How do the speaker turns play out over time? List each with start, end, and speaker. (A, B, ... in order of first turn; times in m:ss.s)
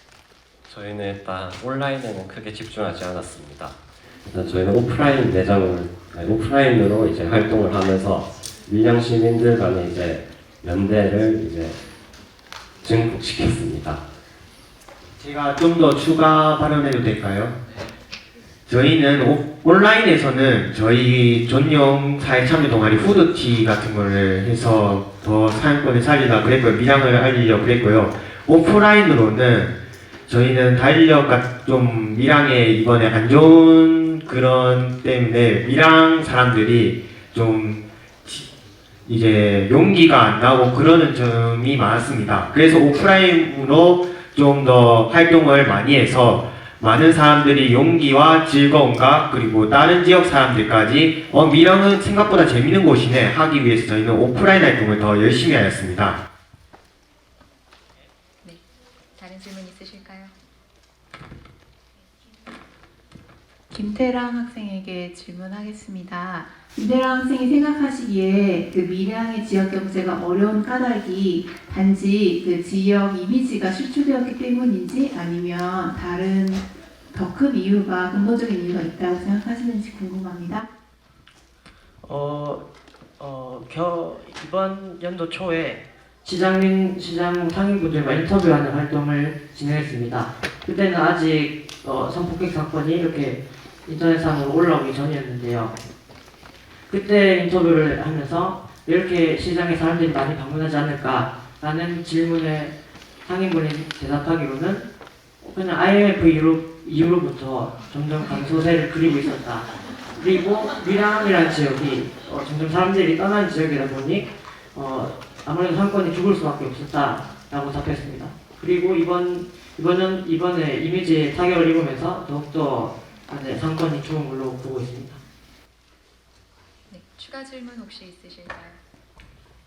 0:00.7-0:03.8 A
0:04.3-0:11.8 A
0:12.8-0:14.0 A
0:15.2-0:17.6 B
0:18.7-0:38.5 B
0:39.0-0:56.2 B
0:59.2-1:00.3 C
1:03.7-1:20.6 D
1:22.0-1:22.6 E
1:23.2-1:35.8 E
1:36.9-1:42.7 E
1:43.2-1:44.9 E
1:45.4-2:05.2 E
2:06.9-2:08.8 C